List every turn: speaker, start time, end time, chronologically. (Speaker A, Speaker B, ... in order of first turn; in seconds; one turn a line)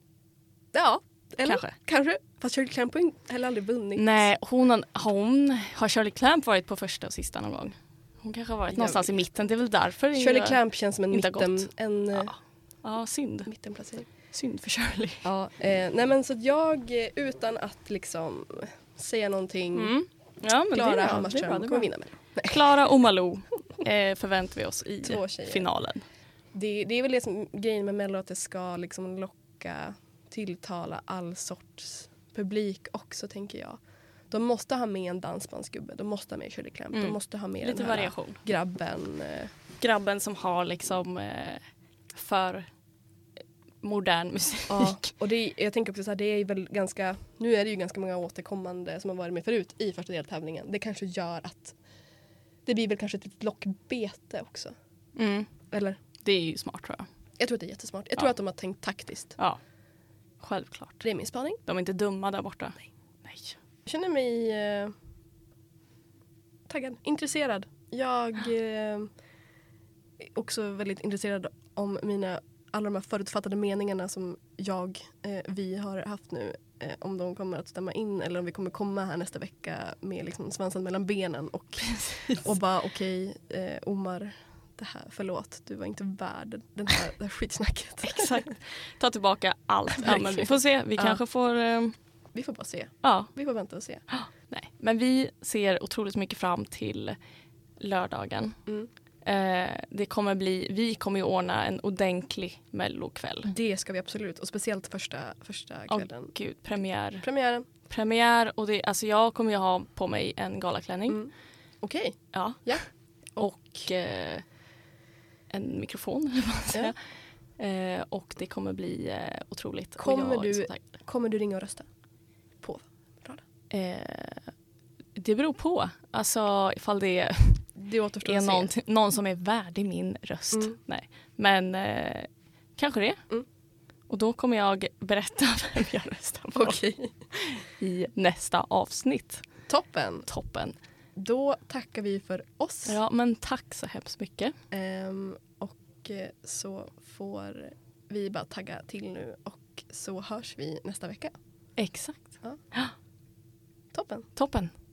Speaker A: 0.7-4.2
Speaker B: 1.4-1.7
Speaker B: 4.0-13.5
Speaker A: 8.7-9.2
Speaker A: 10.1-12.3
Speaker A: 13.5-14.1
Speaker B: 14.3-15.2
Speaker A: 15.2-19.9
Speaker B: 19.7-21.9
Speaker A: 20.7-22.7
Speaker B: 22.4-26.0
Speaker A: 25.0-25.7
Speaker A: 26.5-33.8
Speaker A: 34.3-39.5
Speaker B: 36.9-38.4
Speaker B: 39.8-42.7
Speaker B: 43.8-45.0
Speaker A: 44.7-51.8
Speaker A: 52.6-54.7
Speaker B: 55.1-55.5
Speaker A: 55.7-56.0
Speaker B: 56.2-57.1
Speaker A: 57.4-59.4
Speaker B: 60.4-61.0
Speaker A: 61.0-61.6
Speaker B: 61.6-63.5
Speaker A: 63.9-64.9
Speaker A: 66.7-69.1
Speaker A: 70.2-88.5
Speaker B: 81.8-82.4
Speaker B: 88.0-91.9
Speaker A: 90.0-91.2
Speaker A: 92.3-94.0
Speaker B: 93.0-93.3
Speaker B: 94.1-97.2
Speaker B: 97.8-98.6
Speaker B: 99.2-103.5
Speaker A: 103.4-106.3
Speaker B: 105.9-107.2
Speaker A: 107.2-107.7
Speaker B: 107.9-111.2
Speaker A: 111.1-113.5
Speaker B: 112.3-114.4
Speaker B: 115.5-117.0
Speaker B: 117.6-120.8
Speaker A: 120.0-121.9
Speaker A: 122.6-123.4
Speaker B: 123.7-124.5
Speaker B: 125.2-127.7
Speaker A: 127.8-128.7
Speaker B: 128.2-133.2
Speaker B: 134.1-136.8
Speaker A: 136.5-137.1
Speaker B: 137.3-139.4
Speaker A: 139.7-140.3
Speaker B: 140.3-140.7
Speaker A: 141.2-143.0
Speaker B: 142.8-144.5
Speaker A: 144.7-151.4
Speaker B: 151.8-152.9
Speaker A: 153.9-154.3
Speaker B: 154.3-154.7